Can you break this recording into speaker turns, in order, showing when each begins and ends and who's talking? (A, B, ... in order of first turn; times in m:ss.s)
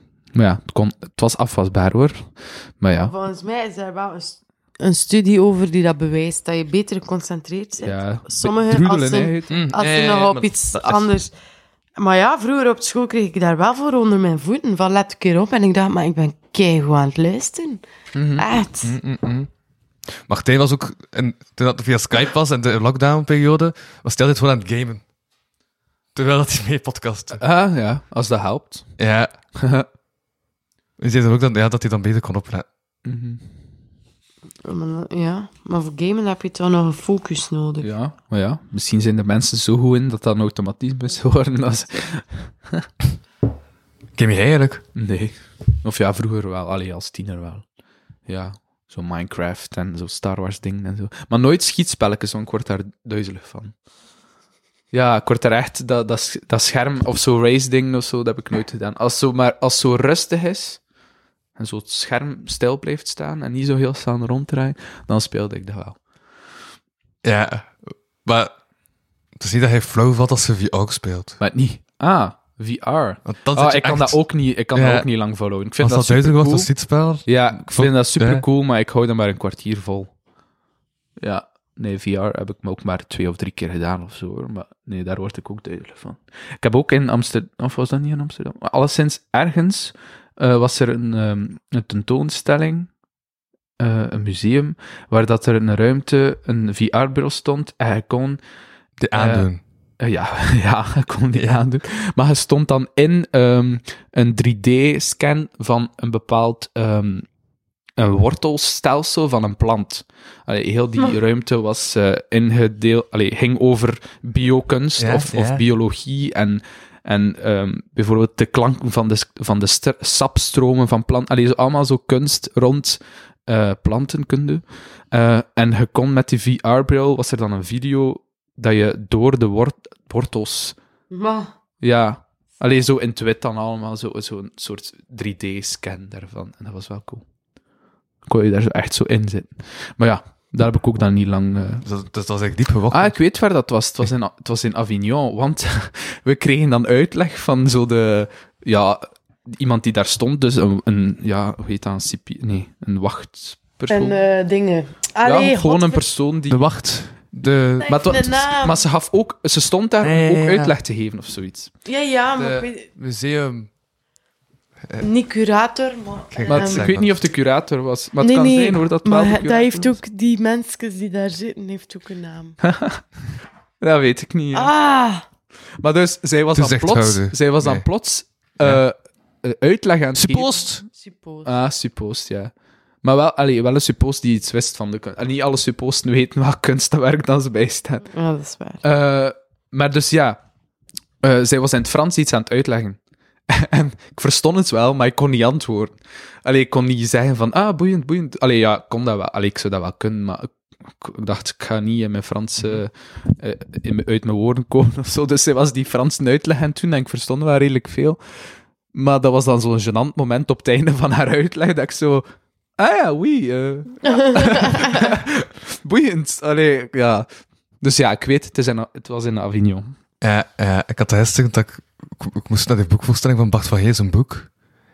0:00.3-0:03.1 A
0:02.9-0:11.3 B
0:07.8-0:09.6 A
0:09.5-0:11.1 C
0:12.0-0:17.8 B
0:18.1-0:18.4 A
0:18.4-0:18.9 B
0:18.8-0:19.5 C
0:20.2-0:25.0 C
0:26.1-0:27.4 C
0:27.4-0:29.0 A
0:29.0-0:29.3 C
0:29.6-0:29.8 A
0:31.0-0:32.7 C
0:33.0-0:33.5 A
0:34.6-0:37.9 B
0:37.8-0:42.9 A
0:44.2-0:44.8 C
0:44.9-0:47.7 A
0:48.2-0:53.8 A
0:54.9-1:00.8 A
1:01.6-1:06.0 A
1:07.2-1:08.6 C
1:09.4-1:11.4 C
1:11.4-1:20.1 A
1:13.2-1:18.4 C
1:21.2-1:33.0 A
1:33.8-1:38.4 A
1:39.0-1:39.6 C
1:39.1-1:47.3 A
1:41.3-1:41.6 C
1:48.0-2:10.8 A
1:55.0-1:55.6 C
2:11.1-2:11.5 B
2:11.8-2:17.2 A
2:18.2-2:21.8 A
2:21.8-2:23.3 C
2:22.9-2:34.2 A
2:33.9-2:36.0 B
2:35.2-2:36.6 A
2:36.5-2:37.9 C
2:37.8-2:41.7 A
2:37.8-2:38.8 B
2:40.0-2:40.7 C
2:41.8-2:42.9 B
2:42.4-2:43.7 C
2:45.0-2:46.9 B
2:46.3-2:47.1 C
2:46.5-2:50.0 A
2:48.2-2:52.6 B
2:52.6-2:53.0 A
2:53.8-2:54.7 A
2:54.5-2:55.2 B
2:55.8-3:00.6 A
2:56.5-2:58.8 C
3:00.1-3:00.9 C
3:00.9-3:01.5 B
3:01.4-3:08.1 A
3:08.1-3:08.8 B
3:08.8-3:10.4 A
3:11.2-3:40.0 A
3:34.0-3:34.8 B
3:40.2-3:44.5 C